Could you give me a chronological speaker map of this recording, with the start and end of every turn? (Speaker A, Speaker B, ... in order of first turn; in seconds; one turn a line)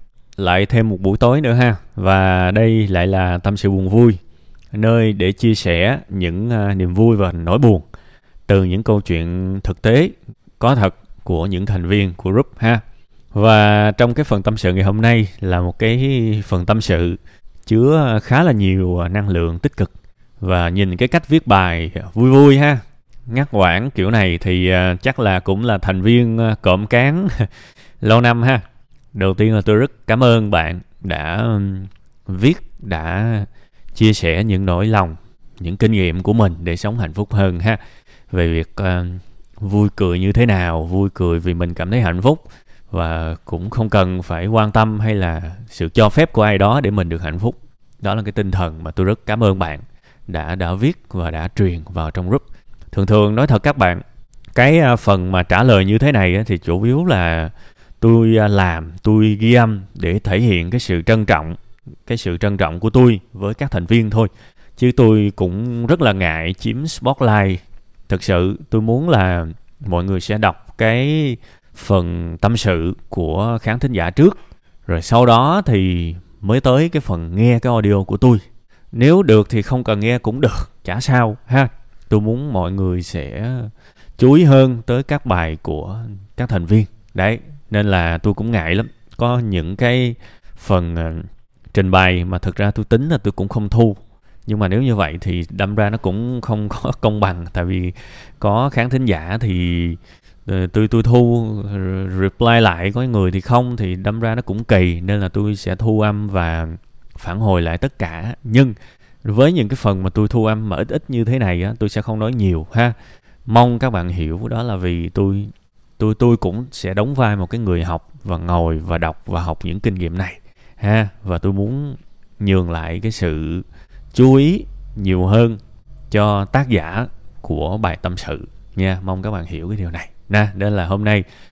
Speaker A: 0.4-4.2
Speaker A: 4.7-7.8
Speaker A: 8.5-12.8
Speaker A: 13.3-27.5
Speaker A: 28.0-54.0
Speaker A: 54.5-112.9
Speaker A: 113.5-125.6
Speaker A: 126.1-131.2